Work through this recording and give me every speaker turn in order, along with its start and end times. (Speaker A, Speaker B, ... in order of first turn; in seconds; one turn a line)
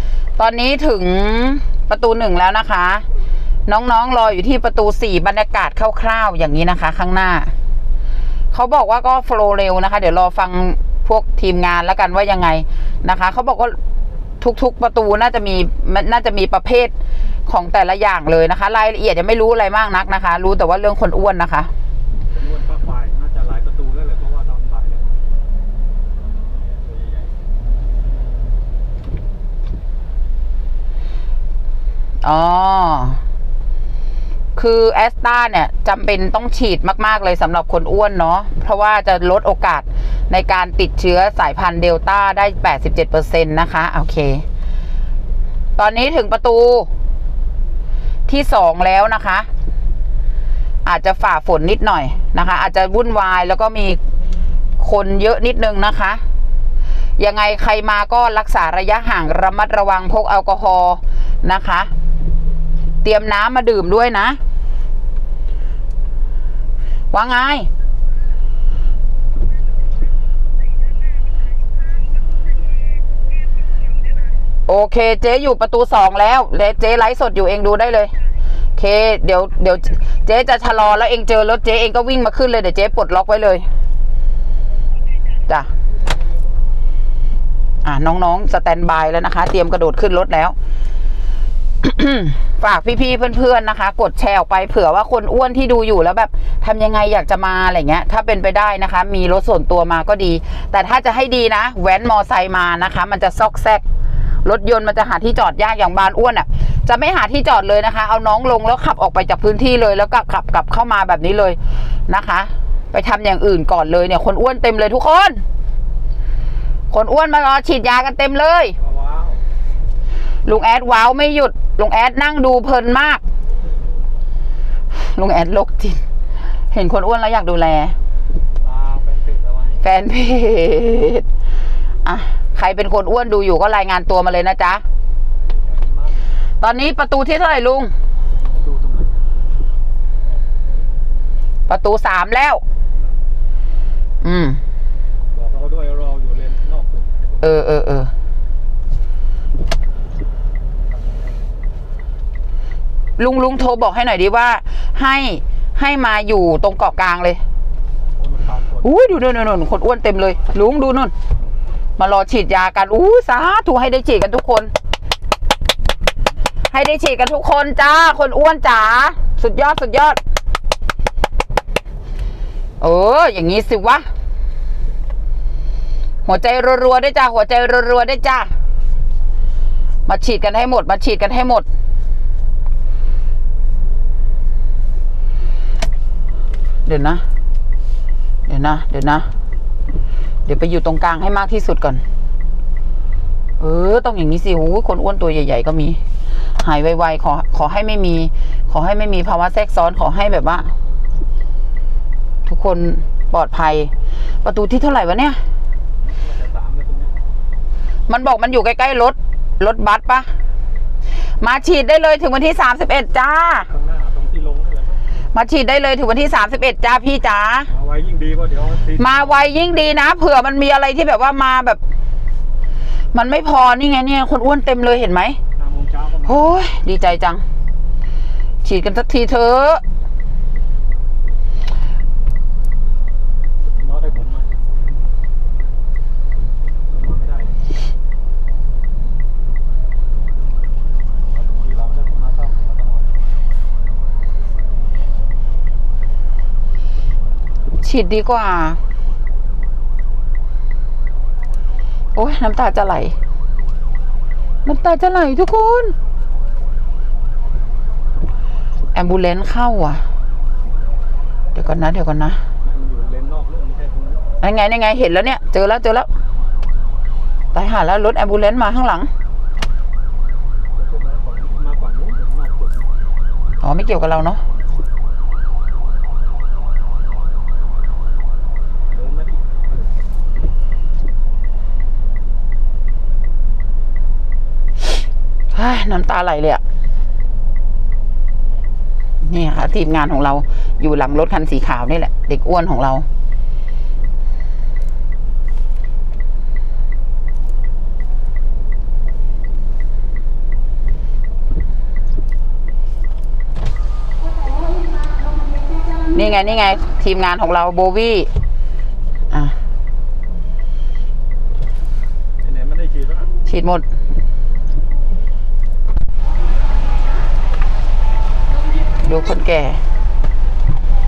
Speaker A: 0.4-3.0
Speaker A: 3.7-7.5
Speaker A: 8.5-13.8
Speaker A: 14.4-16.9
Speaker A: 17.5-21.7
Speaker B: 22.3-25.2
Speaker B: 26.5-28.6
Speaker A: 32.2-33.2
Speaker A: 34.6-44.4
Speaker A: 45.8-46.9
Speaker A: 48.3-49.5
Speaker A: 50.8-54.0
Speaker A: 54.8-56.2
Speaker A: 57.2-61.9
Speaker A: 63.0-64.4
Speaker A: 67.1-67.7
Speaker A: 74.7-78.1
Speaker A: 78.8-83.7
Speaker A: 87.8-90.6
Speaker A: 91.8-103.8
Speaker A: 104.4-115.4
Speaker A: 116.9-118.7
Speaker B: 118.8-119.4
Speaker A: 120.5-123.2
Speaker B: 123.5-124.1
Speaker A: 125.0-126.0
Speaker A: 126.7-128.0
Speaker B: 128.6-129.9
Speaker A: 129.8-131.3
Speaker A: 132.0-134.8
Speaker B: 135.4-136.4
Speaker A: 136.6-137.9
Speaker B: 138.3-139.2
Speaker B: 140.2-140.9
Speaker A: 141.7-142.6
Speaker B: 142.9-143.2
Speaker A: 144.2-144.6
Speaker B: 145.3-147.6
Speaker A: 147.4-148.1
Speaker B: 150.8-151.7
Speaker A: 153.2-157.4
Speaker B: 158.1-159.3
Speaker A: 158.8-161.1
Speaker A: 162.0-164.7
Speaker A: 166.7-170.2
Speaker A: 172.8-174.1
Speaker A: 176.3-178.5
Speaker A: 180.1-181.7
Speaker A: 186.8-187.2
Speaker A: 188.5-189.3
Speaker A: 190.5-192.0
Speaker A: 193.6-196.0
Speaker A: 196.6-200.7
Speaker A: 202.5-203.9
Speaker A: 204.4-205.4
Speaker B: 206.0-207.1
Speaker A: 208.1-210.3
Speaker A: 211.4-213.7
Speaker B: 213.6-215.0
Speaker A: 215.3-217.7
Speaker B: 217.7-219.5
Speaker A: 219.0-221.8
Speaker A: 223.1-225.4
Speaker B: 225.6-226.6
Speaker A: 226.3-227.4
Speaker A: 228.6-229.8
Speaker B: 233.6-234.6
Speaker B: 236.9-237.6
Speaker B: 241.2-243.2
Speaker A: 247.8-248.8
Speaker A: 252.2-253.2
Speaker A: 254.7-255.9
Speaker A: 258.9-260.0
Speaker A: 261.5-262.4
Speaker B: 262.6-264.2
Speaker A: 264.4-266.1
Speaker A: 267.5-269.1
Speaker B: 270.7-273.0
Speaker A: 273.6-274.4
Speaker B: 278.9-280.0
Speaker A: 285.5-286.6
Speaker A: 289.2-293.1
Speaker A: 306.1-308.3
Speaker B: 312.4-313.3
Speaker A: 313.5-313.9
Speaker A: 319.0-319.8